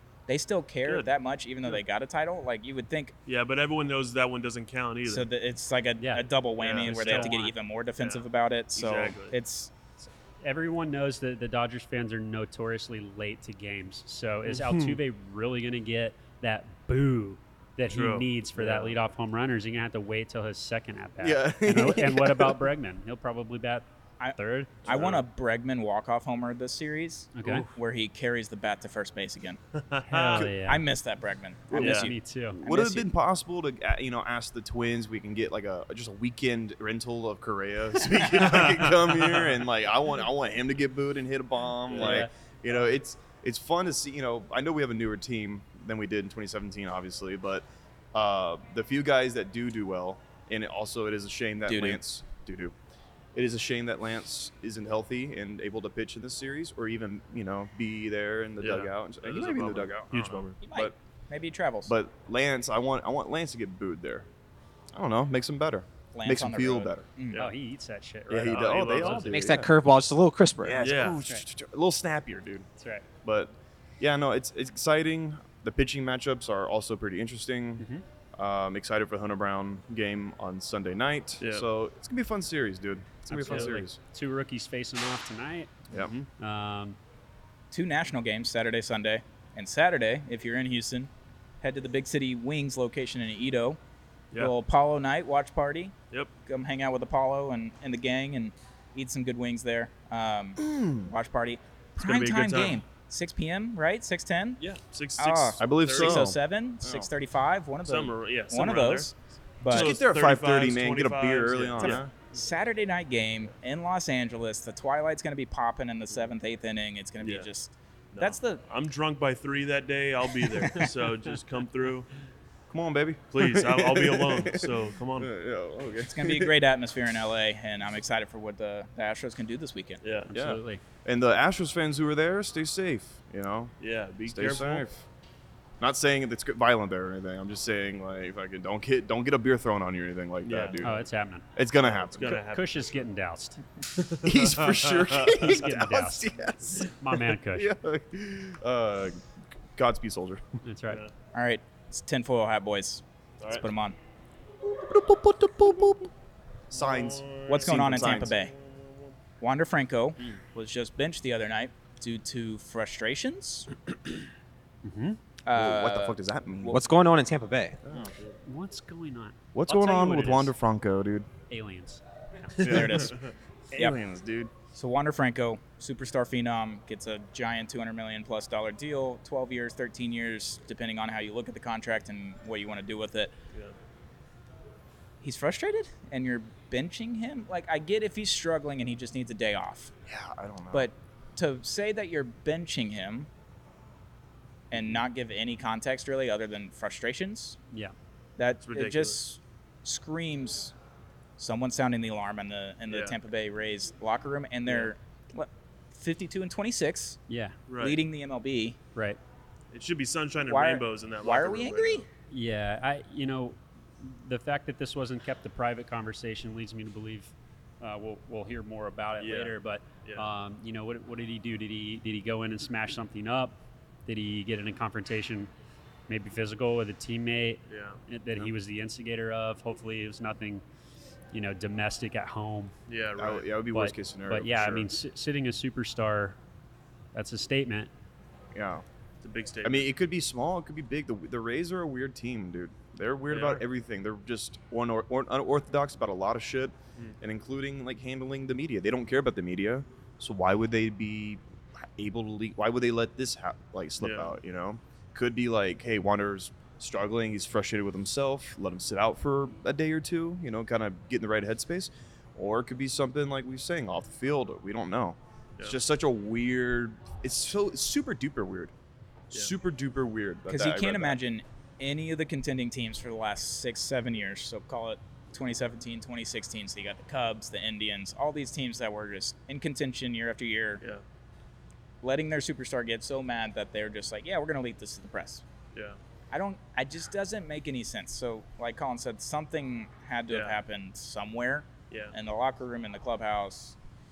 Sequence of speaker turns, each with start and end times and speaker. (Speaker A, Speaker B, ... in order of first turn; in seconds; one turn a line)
Speaker A: 0.3-3.1
Speaker B: 0.8-1.1
Speaker B: 3.2-5.3
Speaker A: 5.0-9.7
Speaker C: 6.0-6.3
Speaker B: 6.6-7.4
Speaker C: 6.8-7.6
Speaker B: 8.0-9.4
Speaker C: 10.0-24.9
Speaker B: 14.4-15.0
Speaker B: 17.9-19.0
Speaker D: 21.2-22.6
Speaker A: 24.2-29.6
Speaker B: 24.9-25.2
Speaker C: 27.4-27.7
Speaker B: 29.8-30.5
Speaker C: 30.1-30.9
Speaker A: 30.5-32.1
Speaker D: 31.7-32.0
Speaker B: 31.7-32.1
Speaker C: 31.7-32.6
Speaker D: 32.5-52.7
Speaker A: 32.7-33.1
Speaker B: 38.3-39.6
Speaker B: 41.9-42.3
Speaker C: 42.0-42.3
Speaker A: 51.7-52.0
Speaker D: 53.4-60.9
Speaker B: 58.6-60.6
Speaker A: 60.6-61.9
Speaker D: 61.9-64.3
Speaker D: 64.9-67.1
Speaker A: 66.1-67.5
Speaker C: 67.4-69.5
Speaker D: 68.3-69.7
Speaker B: 68.5-69.3
Speaker E: 69.3-70.8
Speaker D: 70.6-72.7
Speaker B: 70.8-71.2
Speaker C: 71.2-71.5
Speaker C: 72.8-73.1
Speaker D: 73.2-77.8
Speaker C: 77.8-78.0
Speaker D: 78.4-84.0
Speaker B: 81.4-81.7
Speaker C: 83.3-87.0
Speaker B: 83.5-83.8
Speaker A: 87.7-91.1
Speaker A: 91.6-93.8
Speaker A: 94.4-95.9
Speaker A: 96.5-104.6
Speaker D: 100.6-101.1
Speaker B: 102.0-102.8
Speaker B: 104.6-106.3
Speaker A: 105.2-109.9
Speaker D: 105.6-107.1
Speaker B: 107.8-109.1
Speaker D: 109.7-112.1
Speaker B: 109.7-112.1
Speaker A: 111.8-118.6
Speaker B: 117.2-117.5
Speaker B: 118.1-122.1
Speaker D: 122.7-126.5
Speaker B: 123.3-125.3
Speaker A: 126.0-130.0
Speaker B: 130.0-130.3
Speaker C: 130.3-130.8
Speaker D: 130.3-133.7
Speaker B: 133.8-134.9
Speaker D: 134.3-135.1
Speaker D: 135.8-142.4
Speaker B: 140.4-140.9
Speaker C: 140.8-141.5
Speaker B: 141.8-143.1
Speaker C: 142.2-143.6
Speaker B: 144.0-145.5
Speaker D: 144.2-147.0
Speaker C: 145.4-146.3
Speaker C: 146.9-147.7
Speaker D: 147.5-149.2
Speaker D: 149.8-150.4
Speaker C: 150.6-151.1
Speaker A: 151.3-154.0
Speaker B: 153.4-153.7
Speaker D: 154.6-156.1
Speaker D: 156.7-158.3
Speaker B: 156.7-159.1
Speaker A: 157.5-158.5
Speaker A: 159.4-163.7
Speaker C: 164.8-165.2
Speaker A: 165.5-166.8
Speaker D: 165.5-166.8
Speaker E: 166.7-167.8
Speaker D: 167.8-168.1
Speaker C: 168.4-170.5
Speaker D: 169.5-171.3
Speaker C: 171.5-172.6
Speaker D: 172.6-173.2
Speaker A: 172.7-173.2
Speaker D: 173.7-174.5
Speaker A: 174.7-183.3
Speaker A: 185.2-189.9
Speaker D: 190.1-190.9
Speaker A: 190.7-193.3
Speaker A: 194.7-197.6
Speaker A: 198.4-200.7
Speaker B: 198.6-199.2
Speaker A: 201.4-207.2
Speaker B: 202.9-203.2
Speaker C: 204.7-204.9
Speaker C: 207.3-207.6
Speaker B: 207.7-208.0
Speaker A: 207.8-208.8
Speaker C: 208.9-209.2
Speaker B: 209.7-212.1
Speaker A: 210.4-212.1
Speaker C: 212.3-225.5
Speaker B: 219.2-220.3
Speaker C: 226.1-230.6
Speaker B: 227.7-228.0
Speaker C: 231.3-232.7
Speaker B: 232.9-233.5
Speaker D: 233.2-234.9
Speaker C: 233.7-236.4
Speaker C: 237.1-237.9
Speaker D: 238.5-238.8
Speaker B: 239.2-239.9
Speaker D: 239.6-268.7
Speaker B: 243.3-243.6
Speaker B: 254.0-254.4
Speaker D: 269.3-271.2
Speaker A: 270.5-280.8
Speaker A: 282.0-285.4
Speaker A: 286.3-293.8
Speaker B: 290.3-290.6
Speaker B: 291.9-292.1